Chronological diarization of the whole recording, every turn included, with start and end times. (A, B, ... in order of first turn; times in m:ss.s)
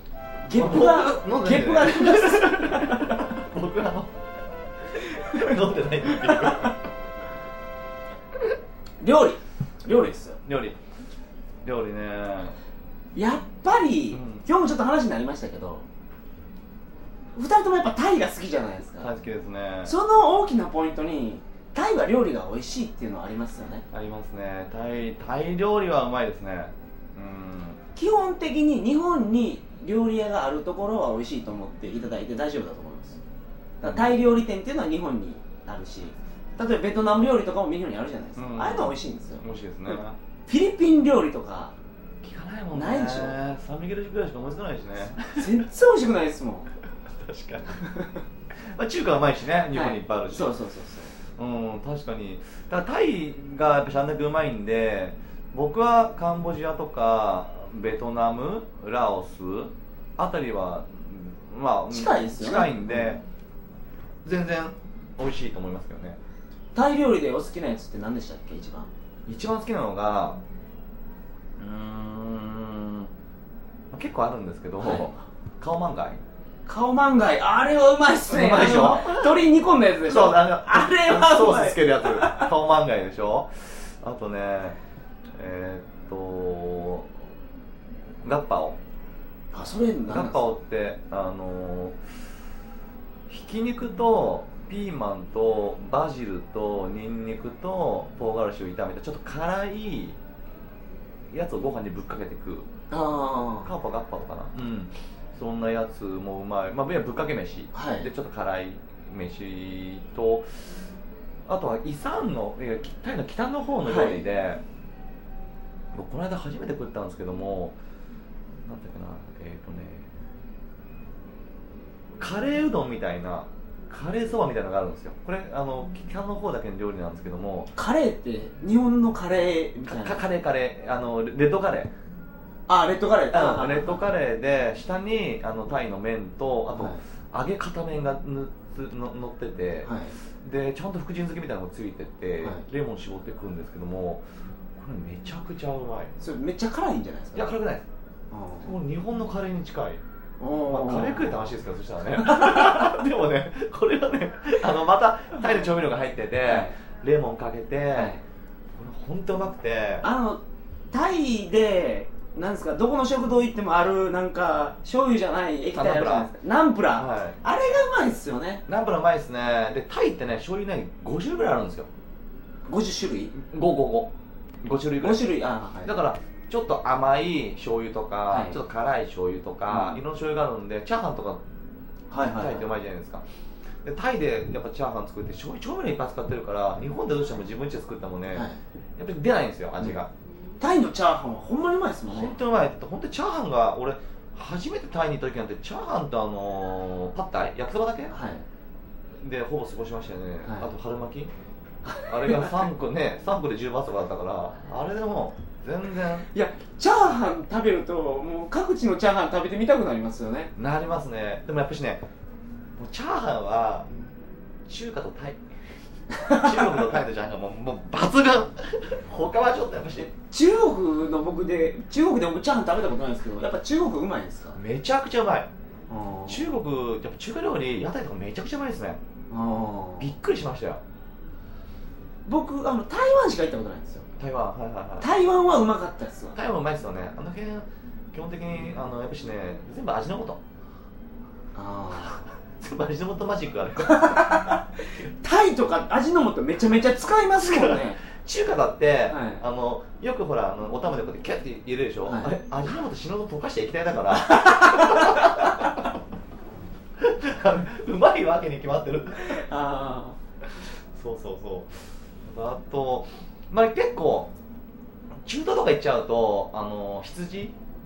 0:00.4-0:03.3 A
0:00.5-0:04.2 B
0:05.0-0:06.8 B
0:06.3-0:06.7 A
0:09.0-0:10.4 A
0:10.4-0:10.8 B
0:11.6-0:12.6 B
0:13.2-0:15.8 A
0:14.1-0:14.4 B
0:17.3-0:19.1 A
0:19.0-0:20.0 B
0:19.8-0:23.8 A
0:23.9-0:27.8 B
0:28.0-0:33.2 A
0:33.8-0:40.0 A
0:33.8-0:34.2 B
0:38.4-0:40.2 B
0:40.5-0:41.7 A
0:42.2-0:45.5 B
0:42.7-0:43.4 A
0:45.3-0:46.7 A
0:47.1-0:47.8 B
0:48.6-0:50.5 B
0:49.7-0:51.2 A
0:51.4-1:03.2 B
1:01.9-1:03.2 A
1:04.2-1:06.2 B
1:06.8-1:08.9 A
1:09.3-1:10.4 B
1:11.6-1:13.1 B
1:13.9-1:16.2 B
1:14.8-1:15.2 A
1:16.7-1:22.5 A
1:18.3-1:19.4 B
1:20.1-1:24.8 B
1:25.4-1:27.1 B
1:28.2-1:28.8 B
1:29.5-1:30.5 A
1:30.1-1:32.0 B
1:33.3-1:40.2 B
1:41.3-1:42.7 B
1:42.9-1:43.7 A
1:43.6-1:50.7 B
1:47.7-1:48.1 A
1:51.5-1:54.6 B
1:53.8-1:54.2 A
1:55.9-1:57.8 B
1:58.7-2:00.1 B
2:02.2-2:07.7 B
2:07.7-2:10.2 A
2:09.8-2:11.9 B
2:12.7-2:14.0 A
2:13.3-2:24.2 B
2:16.7-2:17.0 A
2:19.8-2:20.2 A
2:24.8-2:26.1 B
2:26.2-2:27.5 A
2:27.3-2:27.8 B
2:28.3-2:28.8 A
2:28.6-2:30.0 B
2:30.4-2:31.5 A
2:30.7-2:38.1 B
2:32.2-2:32.9 A
2:35.4-2:35.7 A
2:36.4-2:36.8 A
2:38.0-2:38.2 A
2:38.8-2:40.1 B
2:40.0-2:40.4 A
2:40.9-2:48.6 A
2:45.7-2:46.3 B
2:47.0-2:47.4 B
2:48.7-2:51.9 B
2:52.7-2:53.3 A
2:53.3-3:01.4 B
2:55.0-2:55.9 A
2:58.3-2:58.6 A
2:59.7-3:00.0 A
3:02.1-3:02.7 A
3:02.2-3:03.2 B
3:03.8-3:10.1 B
3:08.3-3:08.6 A
3:10.6-3:12.4 A
3:12.1-3:18.2 B
3:18.1-3:18.4 A
3:19.2-3:21.3 B
3:20.4-3:20.7 A
3:21.8-3:22.6 A
3:22.0-3:26.3 B
3:26.3-3:30.5 A
3:30.6-3:32.0 B
3:32.8-3:33.9 B
3:34.7-3:35.4 B
3:36.1-3:36.7 A
3:36.3-3:40.1 B
3:40.2-3:44.6 A
3:44.5-3:45.5 B
3:45.9-3:46.5 A
3:46.3-3:49.0 B
3:49.3-3:50.1 A
3:50.0-3:50.8 B
3:52.3-3:54.1 A
3:54.2-3:55.1 B
3:55.0-3:56.4 A
3:56.3-4:00.4 B
4:01.5-4:02.2 A
4:02.0-4:05.1 B
4:03.8-4:08.0 A
4:07.4-4:15.8 B
4:09.1-4:09.4 A
4:12.0-4:12.3 A
4:14.2-4:15.8 A
4:17.0-4:19.4 B
4:19.2-4:20.2 A
4:20.6-4:24.3 B
4:25.2-4:27.6 B